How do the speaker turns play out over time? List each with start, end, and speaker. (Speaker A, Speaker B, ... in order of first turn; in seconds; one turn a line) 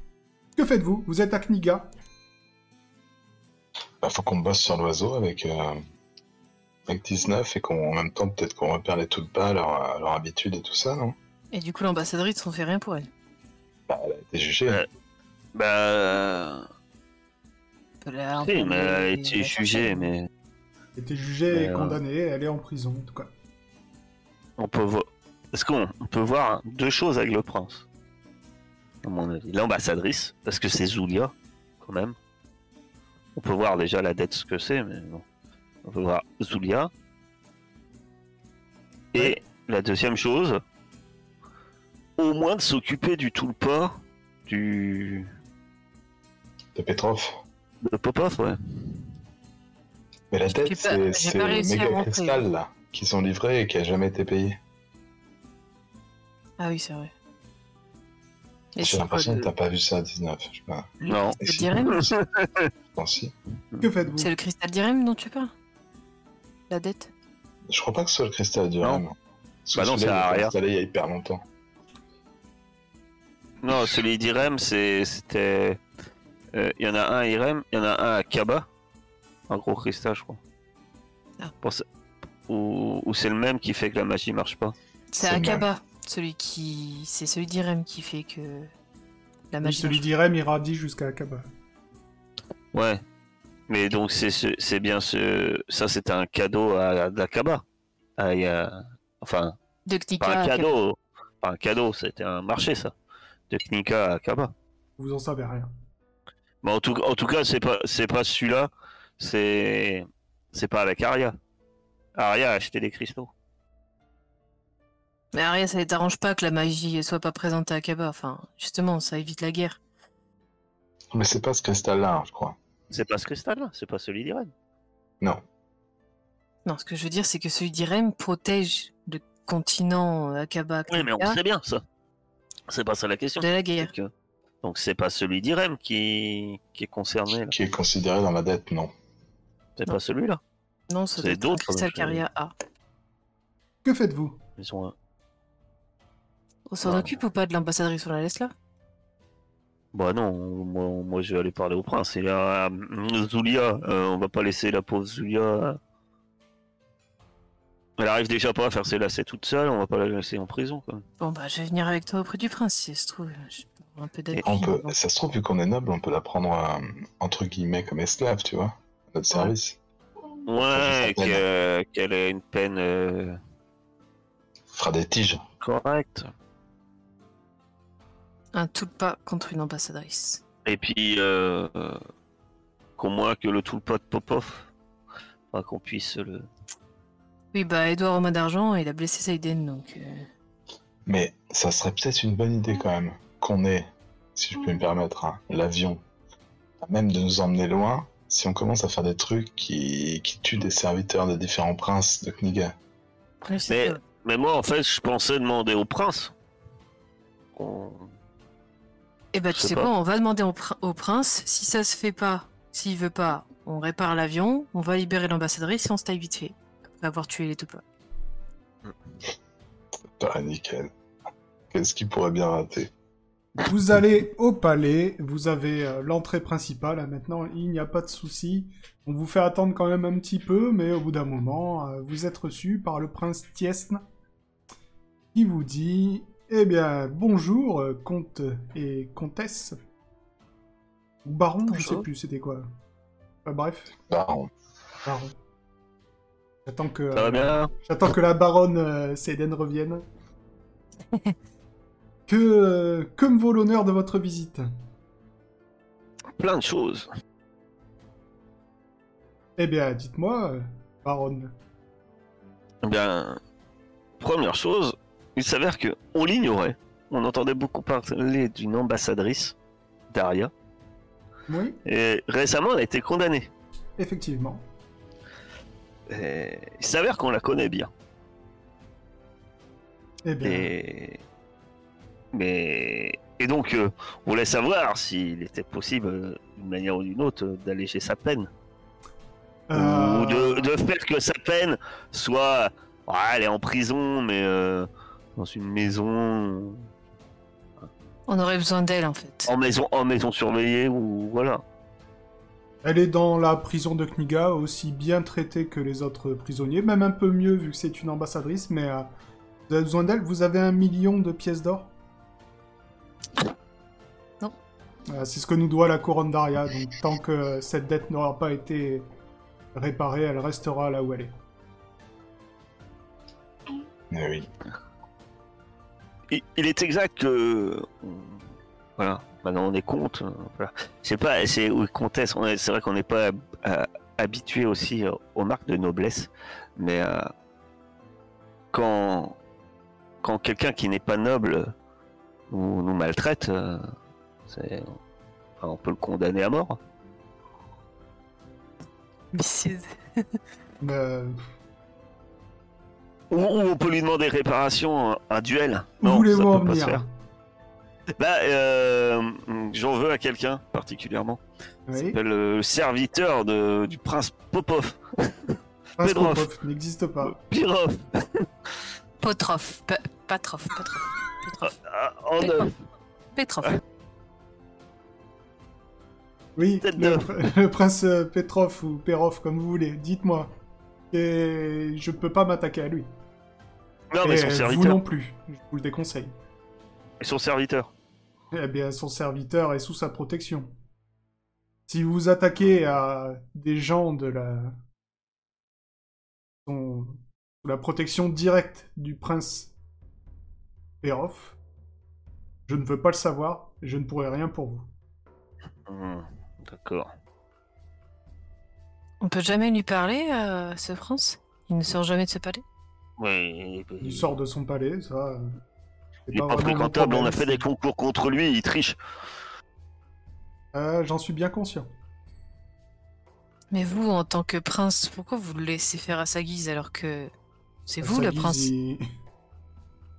Speaker A: 0.6-1.9
Speaker B: 4.0-5.8
Speaker B: 6.9-11.1
Speaker C: 11.5-13.1
Speaker B: 13.9-14.8
Speaker D: 15.5-16.6
Speaker C: 18.0-20.1
Speaker D: 18.4-20.3
Speaker A: 21.0-23.3
Speaker D: 21.5-22.0
Speaker D: 24.6-27.8
Speaker D: 29.0-32.1
Speaker D: 33.4-35.2
Speaker D: 35.8-36.9
Speaker D: 39.1-40.6
Speaker D: 42.2-45.3
Speaker B: 46.7-47.4
Speaker D: 47.8-49.0
Speaker B: 50.3-54.6
Speaker C: 50.5-52.5
Speaker C: 56.6-57.1
Speaker C: 58.7-59.5
Speaker B: 58.8-61.9
Speaker D: 61.0-61.4
Speaker C: 61.4-62.1
Speaker D: 61.9-62.7
Speaker B: 62.9-63.3
Speaker A: 63.8-64.3
Speaker C: 64.2-65.5
Speaker C: 66.7-67.1
Speaker B: 67.7-69.1
Speaker B: 69.6-71.4
Speaker D: 69.7-70.5
Speaker D: 73.6-75.8
Speaker D: 76.5-78.7
Speaker D: 79.5-80.4
Speaker D: 82.5-84.7
Speaker C: 85.1-88.7
Speaker B: 85.2-85.6
Speaker C: 89.5-90.0
Speaker A: 89.6-91.5
Speaker D: 92.7-93.0
Speaker D: 93.7-97.6
Speaker D: 98.2-99.5
Speaker C: 99.9-100.7
Speaker D: 100.2-102.9
Speaker D: 103.5-104.5
Speaker A: 105.0-105.7
Speaker D: 106.6-111.3
Speaker D: 112.2-113.3
Speaker C: 115.3-119.8
Speaker B: 121.1-122.6
Speaker D: 122.9-124.5
Speaker C: 126.7-131.4
Speaker D: 130.9-131.8
Speaker D: 132.7-134.1
Speaker C: 133.4-133.9
Speaker D: 134.6-137.6
Speaker B: 137.4-138.9
Speaker D: 139.8-140.4
Speaker C: 140.9-142.5
Speaker D: 141.2-142.2
Speaker A: 143.8-144.4
Speaker D: 144.6-144.9
Speaker C: 146.7-148.5
Speaker D: 146.8-147.2
Speaker D: 149.9-155.8
Speaker D: 158.0-161.0
Speaker C: 161.2-164.9
Speaker B: 164.4-169.8
Speaker D: 170.5-173.4
Speaker B: 170.5-171.4
Speaker B: 174.7-175.4
Speaker D: 175.6-176.3
Speaker C: 178.5-180.4
Speaker D: 180.7-182.0
Speaker D: 183.0-184.7
Speaker D: 185.5-186.5
Speaker C: 187.5-190.3
Speaker B: 191.1-196.0
Speaker B: 196.8-202.7
Speaker C: 203.4-204.0
Speaker D: 203.7-206.3
Speaker D: 207.6-208.1
Speaker C: 209.3-217.8
Speaker D: 209.5-209.9
Speaker B: 220.2-220.9
Speaker B: 221.7-222.9
Speaker A: 223.7-234.0
Speaker A: 235.3-239.8
Speaker A: 241.2-242.7
Speaker C: 241.7-242.0
Speaker A: 243.4-243.9
Speaker B: 244.1-244.5
Speaker A: 245.0-245.3
Speaker A: 246.7-250.0
Speaker D: 247.1-247.7
Speaker A: 252.3-254.7
Speaker D: 256.4-257.1
Speaker A: 259.6-261.5
Speaker D: 262.8-263.4
Speaker D: 264.2-269.5
Speaker D: 270.1-270.5
Speaker A: 271.5-271.8
Speaker D: 271.9-273.5
Speaker A: 274.0-274.6
Speaker D: 276.1-277.9
Speaker A: 280.2-280.7
Speaker D: 280.4-281.2
Speaker D: 282.3-288.5
Speaker A: 289.7-290.7
Speaker D: 289.7-296.9
Speaker C: 298.3-299.5
Speaker D: 299.5-301.6
Speaker A: 302.8-309.1
Speaker A: 309.7-311.9
Speaker A: 315.1-319.1
Speaker A: 319.7-321.3
Speaker B: 324.1-324.5
Speaker D: 326.3-328.4
Speaker D: 329.0-337.3
Speaker D: 338.7-339.4
Speaker D: 340.2-341.7
Speaker D: 342.5-343.9
Speaker D: 344.5-345.0
Speaker D: 345.6-346.8
Speaker C: 349.3-350.2
Speaker A: 350.8-351.4
Speaker D: 353.3-357.0
Speaker A: 356.0-357.1
Speaker D: 358.2-361.4
Speaker A: 361.9-362.2
Speaker D: 361.9-366.5
Speaker A: 366.0-367.4
Speaker D: 367.2-368.5
Speaker C: 369.2-371.7
Speaker D: 371.6-372.7
Speaker C: 372.4-372.7
Speaker C: 373.3-373.8
Speaker A: 376.6-380.5
Speaker D: 376.8-377.4
Speaker A: 381.1-383.1
Speaker D: 384.1-385.0
Speaker A: 384.2-386.3
Speaker D: 387.2-387.9
Speaker A: 388.5-390.7
Speaker A: 391.9-394.7
Speaker A: 396.6-399.7
Speaker A: 401.0-401.6
Speaker A: 402.7-404.9
Speaker D: 405.9-407.1
Speaker C: 409.2-412.6
Speaker D: 413.2-414.3
Speaker A: 414.0-415.5
Speaker A: 416.3-417.6
Speaker D: 416.3-419.0
Speaker A: 420.7-421.9
Speaker C: 423.7-427.3
Speaker C: 427.9-428.7
Speaker A: 428.0-429.0